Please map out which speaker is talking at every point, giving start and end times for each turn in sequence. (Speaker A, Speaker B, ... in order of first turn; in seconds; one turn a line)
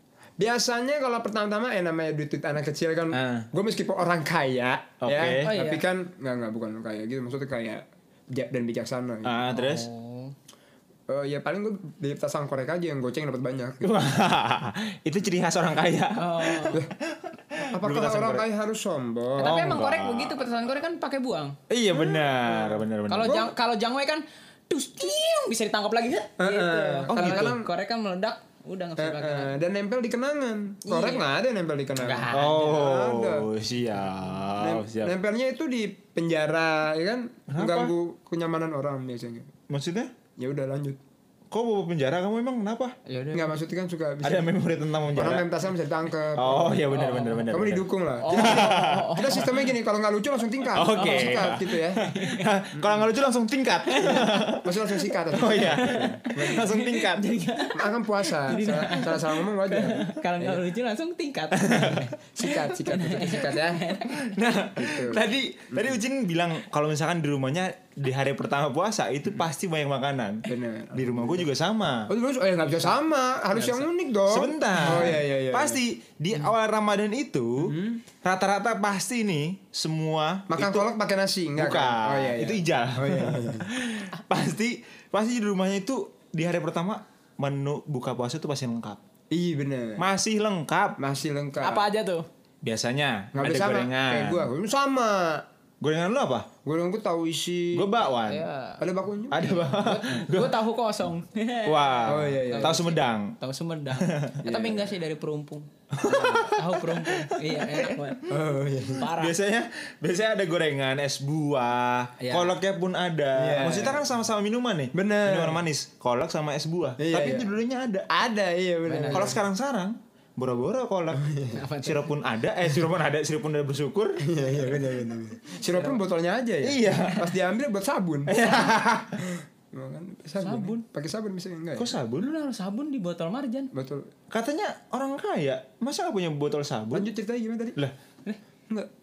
Speaker A: 0.4-9.5
Speaker B: 3.1-3.5
Speaker B: 5.0-5.5
Speaker C: 5.4-5.8
Speaker B: 9.2-9.9
Speaker C: 9.5-10.3
Speaker A: 11.1-13.9
Speaker B: 13.8-18.5
Speaker C: 16.2-16.8
Speaker A: 17.7-19.6
Speaker C: 19.4-21.6
Speaker B: 19.4-20.4
Speaker B: 21.7-23.3
Speaker A: 22.0-23.5
Speaker C: 23.1-29.5
Speaker A: 26.4-27.7
Speaker B: 27.1-27.6
Speaker A: 29.0-33.5
Speaker C: 30.9-31.3
Speaker C: 32.0-32.9
Speaker B: 32.3-35.1
Speaker A: 34.6-39.5
Speaker B: 37.5-37.9
Speaker B: 39.7-40.1
Speaker A: 40.4-41.0
Speaker B: 41.5-43.0
Speaker C: 43.1-43.6
Speaker A: 43.3-44.5
Speaker B: 44.2-45.5
Speaker A: 45.1-46.9
Speaker B: 46.4-49.5
Speaker C: 46.9-47.5
Speaker A: 47.5-52.1
Speaker C: 48.2-49.6
Speaker B: 50.7-57.6
Speaker C: 50.9-52.5
Speaker C: 53.9-54.4
Speaker A: 54.6-56.7
Speaker C: 55.8-64.2
Speaker A: 57.7-60.6
Speaker B: 61.6-62.0
Speaker A: 62.1-63.9
Speaker B: 64.0-72.1
Speaker A: 64.8-66.0
Speaker A: 70.5-71.5
Speaker A: 72.1-75.8
Speaker C: 73.6-73.8
Speaker B: 74.3-80.9
Speaker A: 77.7-78.0
Speaker A: 80.5-83.7
Speaker B: 81.6-89.0
Speaker A: 89.3-90.0
Speaker B: 90.0-91.0
Speaker A: 91.0-91.9
Speaker C: 91.6-92.3
Speaker B: 92.6-94.5
Speaker A: 93.3-95.5
Speaker B: 95.8-96.5
Speaker A: 96.7-97.8
Speaker B: 97.7-98.4
Speaker C: 98.3-98.8
Speaker A: 98.8-99.7
Speaker B: 99.3-100.6
Speaker C: 99.7-108.3
Speaker B: 101.6-103.4
Speaker A: 102.1-102.8
Speaker B: 103.9-104.4
Speaker A: 104.4-104.9
Speaker B: 105.9-108.0
Speaker A: 108.3-109.1
Speaker C: 108.9-109.4
Speaker B: 109.1-118.1
Speaker C: 112.2-112.5
Speaker A: 113.3-114.1
Speaker A: 114.9-115.7
Speaker A: 117.0-117.5
Speaker A: 118.1-119.4
Speaker C: 118.9-119.4
Speaker B: 119.1-121.2
Speaker A: 121.1-121.6
Speaker C: 121.5-122.1
Speaker B: 121.8-124.2
Speaker A: 124.2-128.4
Speaker B: 126.6-127.4
Speaker B: 128.3-129.3
Speaker A: 129.2-131.9
Speaker C: 130.4-130.8
Speaker B: 131.8-132.3
Speaker C: 132.2-133.7
Speaker A: 133.7-134.1
Speaker B: 134.3-137.1
Speaker A: 136.9-137.8